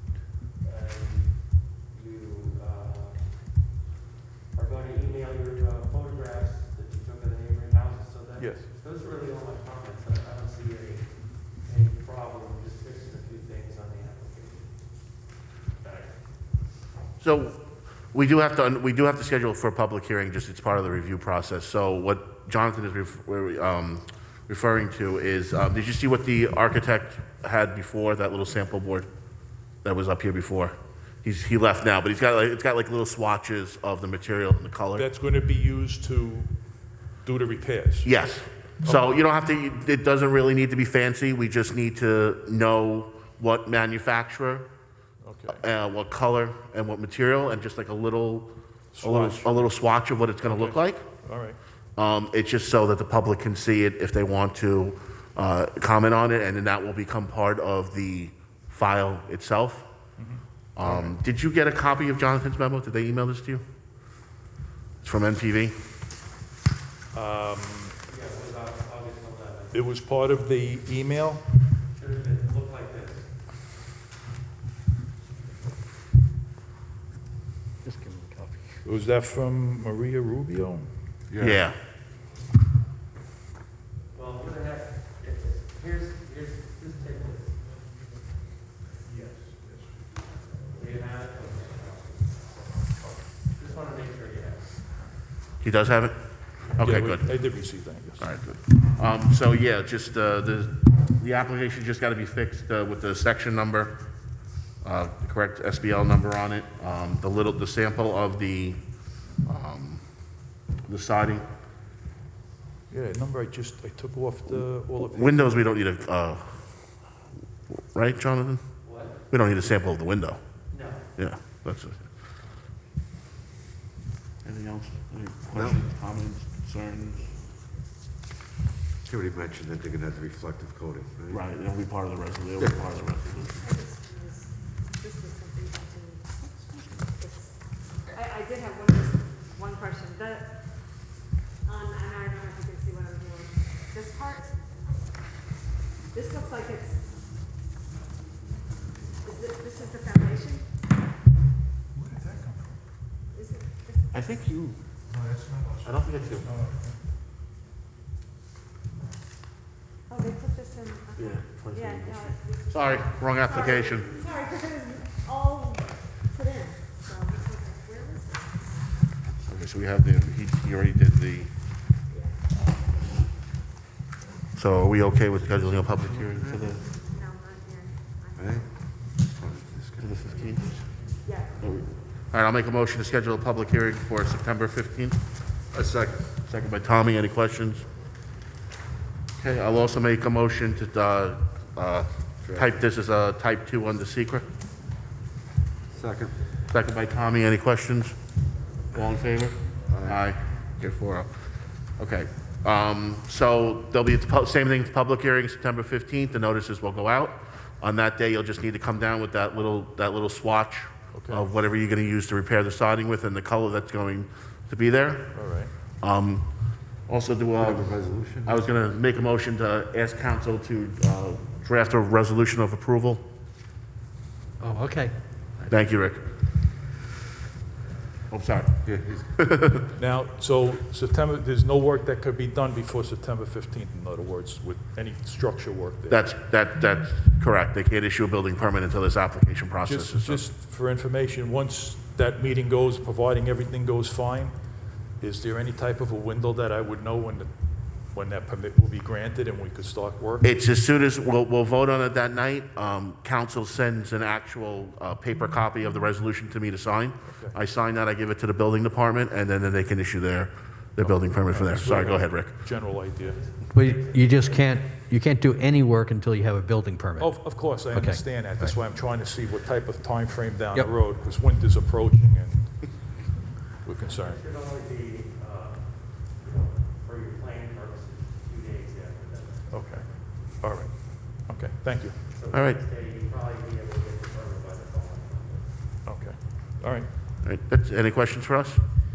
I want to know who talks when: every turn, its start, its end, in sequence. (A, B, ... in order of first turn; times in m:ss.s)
0:00.6-0:03.2 A
0:04.5-0:14.7 A
0:08.4-0:08.7 B
0:15.8-0:16.2 A
0:17.2-0:17.6 C
0:18.1-0:29.1 C
0:29.8-0:35.1 C
0:35.0-0:36.5 B
0:37.2-0:38.1 B
0:38.0-0:44.7 C
0:38.8-0:39.2 B
0:45.2-0:45.6 B
0:45.5-0:48.5 C
0:49.0-0:49.7 B
0:49.0-0:51.0 C
0:50.4-0:51.6 B
0:52.0-0:59.9 C
1:00.2-1:01.2 B
1:00.8-1:03.6 C
1:05.0-1:05.8 C
1:07.1-1:08.0 B
1:08.1-1:09.8 A
1:09.7-1:11.4 B
1:11.9-1:13.3 A
1:17.8-1:18.8 D
1:18.8-1:20.9 B
1:21.3-1:21.6 E
1:21.4-1:21.8 C
1:24.1-1:27.6 A
1:30.7-1:32.6 A
1:33.5-1:34.8 A
1:35.6-1:36.2 C
1:36.7-1:38.3 B
1:36.8-1:37.3 C
1:38.2-1:44.0 C
1:44.8-1:48.8 C
1:49.4-1:50.0 C
1:50.9-1:51.4 C
1:52.9-1:55.6 B
1:55.1-1:56.8 C
1:57.7-1:58.6 C
1:58.8-1:59.2 A
1:59.3-2:00.4 C
2:00.7-2:01.1 A
2:01.2-2:02.0 C
2:04.4-2:07.3 C
2:05.5-2:05.8 E
2:09.0-2:11.4 E
2:11.3-2:13.6 C
2:13.6-2:16.3 F
2:16.6-2:17.0 C
2:17.1-2:17.6 F
2:18.1-2:20.5 F
2:21.6-2:24.6 F
2:26.1-2:27.0 F
2:29.2-2:30.7 F
2:32.0-2:32.6 B
2:33.3-2:34.1 F
2:34.1-2:34.8 C
2:35.8-2:36.6 C
2:40.1-2:48.9 F
2:41.2-2:44.2 C
2:49.3-2:51.5 C
2:52.1-2:52.4 F
2:54.6-2:56.8 C
2:55.9-2:56.7 E
2:57.0-2:58.6 F
2:58.4-2:58.7 E
2:59.2-3:00.3 E
3:00.0-3:00.9 C
3:01.2-3:01.6 F
3:01.6-3:05.2 C
3:05.7-3:06.3 E
3:06.4-3:07.9 C
3:09.4-3:14.5 C
3:12.4-3:12.8 E
3:15.9-3:16.4 E
3:16.7-3:18.1 C
3:18.9-3:21.3 C
3:19.9-3:20.2 E
3:22.0-3:35.3 C
3:31.1-3:31.5 B
3:35.3-3:35.7 B
3:36.0-3:36.5 C
3:37.1-3:37.9 C
3:37.6-3:38.6 E
3:38.4-3:43.2 C
3:44.6-3:45.7 D
3:45.7-3:46.3 C
3:48.3-3:48.7 C
3:48.9-3:49.2 E
3:49.4-3:49.9 C
3:50.0-3:56.3 B
3:56.1-4:00.4 C
3:59.8-4:04.6 B
4:05.2-4:07.5 B
4:08.1-4:10.5 B
4:10.4-4:22.6 C
4:17.3-4:17.6 B
4:21.0-4:23.4 B
4:23.2-4:24.8 A
4:23.7-4:28.7 D
4:27.2-4:32.9 B
4:33.8-4:34.4 B
4:34.1-4:39.8 A
4:39.7-4:40.1 B
4:40.6-4:40.9 B
4:41.5-4:42.2 B
4:42.3-4:45.7 A
4:42.5-4:42.8 C
4:46.1-4:47.1 B
4:47.4-4:48.8 C